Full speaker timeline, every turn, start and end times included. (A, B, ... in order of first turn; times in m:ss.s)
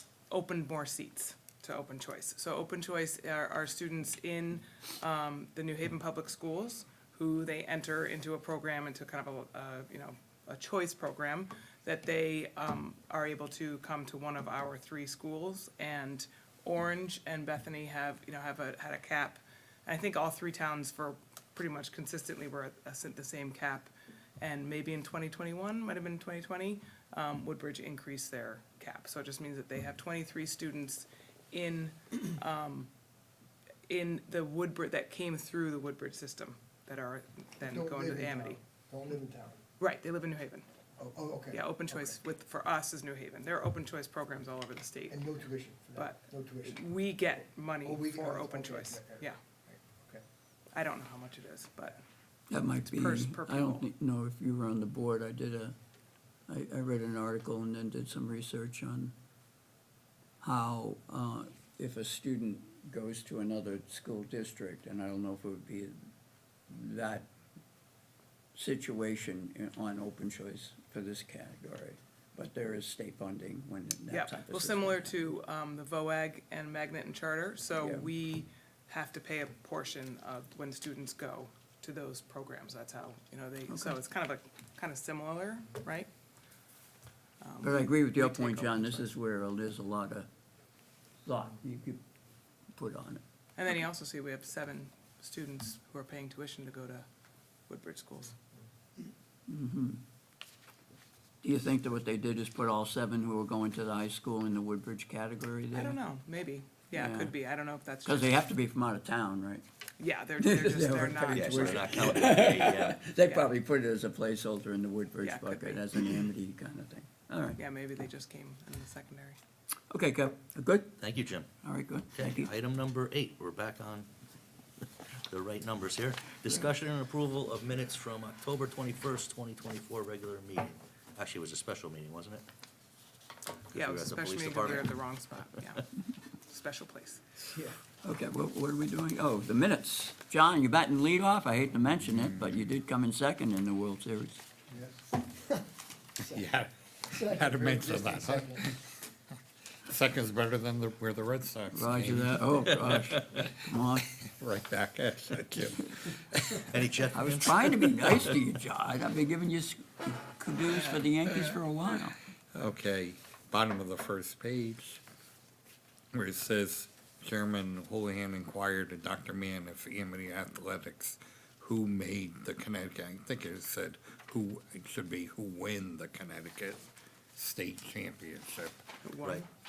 0:00.3-0:32.9 A
0:33.9-0:38.6 A
0:37.6-0:39.6 B
0:39.8-0:40.6 A
0:41.0-0:42.1 B
0:41.5-0:45.2 A
0:45.1-0:46.8 B
0:46.0-0:49.4 A
0:47.8-0:50.2 B
0:50.7-0:52.0 A
0:52.5-0:55.7 C
0:52.8-0:53.9 A
0:56.5-0:59.1 C
1:00.4-1:06.0 C
1:06.7-1:07.3 C
1:08.5-1:15.1 C
1:14.1-1:26.1 A
1:17.8-1:18.1 C
1:23.7-1:24.0 C
1:27.4-1:29.0 A
1:27.6-1:30.3 C
1:31.2-1:32.0 C
1:32.7-1:33.2 C
1:33.6-1:37.1 A
1:37.7-1:38.4 A
1:39.5-1:40.0 C
1:41.4-1:46.0 C
1:45.7-1:48.4 A
1:46.9-1:47.3 C
1:48.0-1:49.6 C
1:50.0-1:52.1 A
1:50.4-1:57.6 C
1:51.3-1:53.0 D
1:53.2-1:53.5 A
1:55.2-1:55.8 A
1:57.6-1:59.4 A
1:59.9-2:01.0 C
2:01.0-2:01.5 D
2:01.6-2:02.5 C
2:02.1-2:04.1 D
2:05.3-2:12.4 D
2:13.7-2:14.9 D
2:13.7-2:15.9 A
2:16.4-2:17.2 A
2:18.0-2:24.4 C
2:22.1-2:22.6 E
2:24.7-2:25.6 B
2:26.2-2:26.4 B
2:26.3-2:29.0 E
2:27.1-2:28.6 B
2:29.8-2:33.4 E
2:31.7-2:34.1 C
2:34.1-2:36.7 E
2:36.7-2:38.3 D
2:37.1-2:42.2 C
2:42.5-2:45.0 E
2:46.1-2:56.8 E
2:57.3-2:58.8 E
2:59.0-2:59.5 A